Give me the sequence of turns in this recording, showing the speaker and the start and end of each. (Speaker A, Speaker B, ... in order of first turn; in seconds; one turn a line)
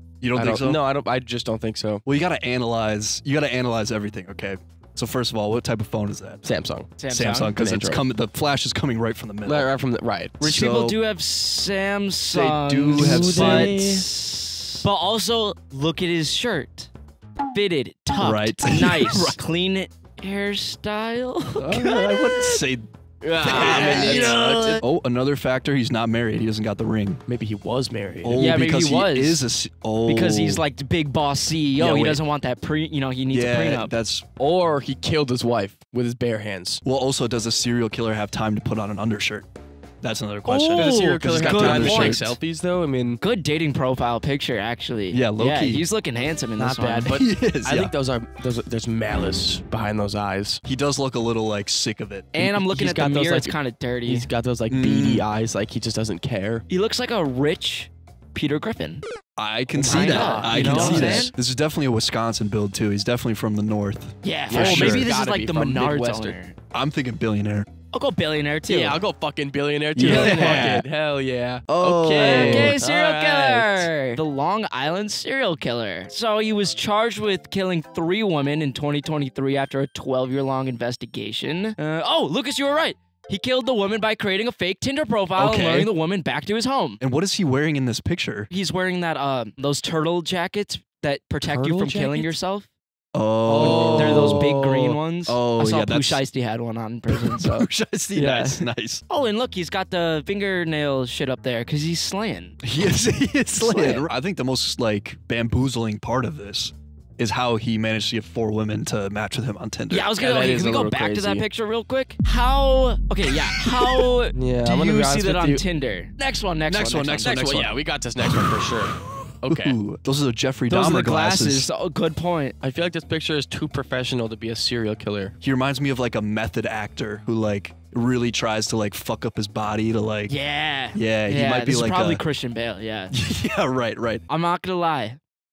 Speaker A: 0.2-0.8
Speaker B: 0.3-2.0
Speaker A: 2.0-6.4
Speaker B: 6.4-7.0
Speaker C: 7.0-7.5
Speaker A: 7.1-9.7
Speaker B: 7.5-8.0
Speaker B: 9.4-10.4
Speaker A: 10.4-11.0
Speaker C: 10.4-16.9
Speaker A: 12.3-13.8
Speaker B: 12.9-14.1
Speaker C: 17.5-22.6
Speaker A: 18.2-19.4
Speaker A: 21.6-22.9
Speaker B: 23.2-24.8
Speaker C: 23.2-24.8
Speaker A: 23.4-27.2
Speaker B: 27.3-28.4
Speaker A: 28.2-30.6
Speaker C: 28.4-29.4
Speaker C: 30.1-33.9
Speaker A: 31.8-32.2
Speaker A: 33.3-34.2
Speaker B: 34.4-36.8
Speaker A: 36.8-39.5
Speaker A: 40.0-42.3
Speaker C: 40.5-42.3
Speaker B: 40.8-43.2
Speaker C: 43.2-47.2
Speaker A: 45.1-45.8
Speaker B: 46.6-50.6
Speaker A: 47.1-47.9
Speaker A: 50.6-52.6
Speaker C: 52.3-54.3
Speaker B: 52.6-56.6
Speaker A: 54.7-55.3
Speaker C: 56.7-59.0
Speaker A: 59.4-65.1
Speaker C: 59.7-61.3
Speaker B: 59.8-61.3
Speaker C: 64.2-66.5
Speaker B: 64.5-66.3
Speaker A: 66.7-67.7
Speaker C: 67.9-69.0
Speaker B: 68.7-73.9
Speaker A: 70.0-70.8
Speaker C: 70.0-70.7
Speaker A: 71.7-72.8
Speaker C: 72.1-87.0
Speaker A: 85.4-85.9
Speaker A: 87.0-88.5
Speaker C: 88.5-92.7
Speaker B: 91.4-92.3
Speaker A: 93.1-94.5
Speaker B: 93.4-95.0
Speaker C: 93.6-102.6
Speaker A: 95.3-96.2
Speaker A: 97.1-99.0
Speaker A: 102.6-110.1
Speaker C: 103.5-104.0
Speaker C: 109.9-117.7
Speaker B: 110.2-111.4
Speaker A: 113.4-114.1
Speaker B: 114.3-115.6
Speaker A: 116.7-121.7
Speaker B: 117.2-119.8
Speaker C: 120.7-122.5
Speaker B: 122.6-125.3
Speaker A: 125.4-130.3
Speaker C: 130.3-133.1
Speaker A: 130.9-132.2
Speaker A: 133.1-134.2
Speaker C: 134.3-135.2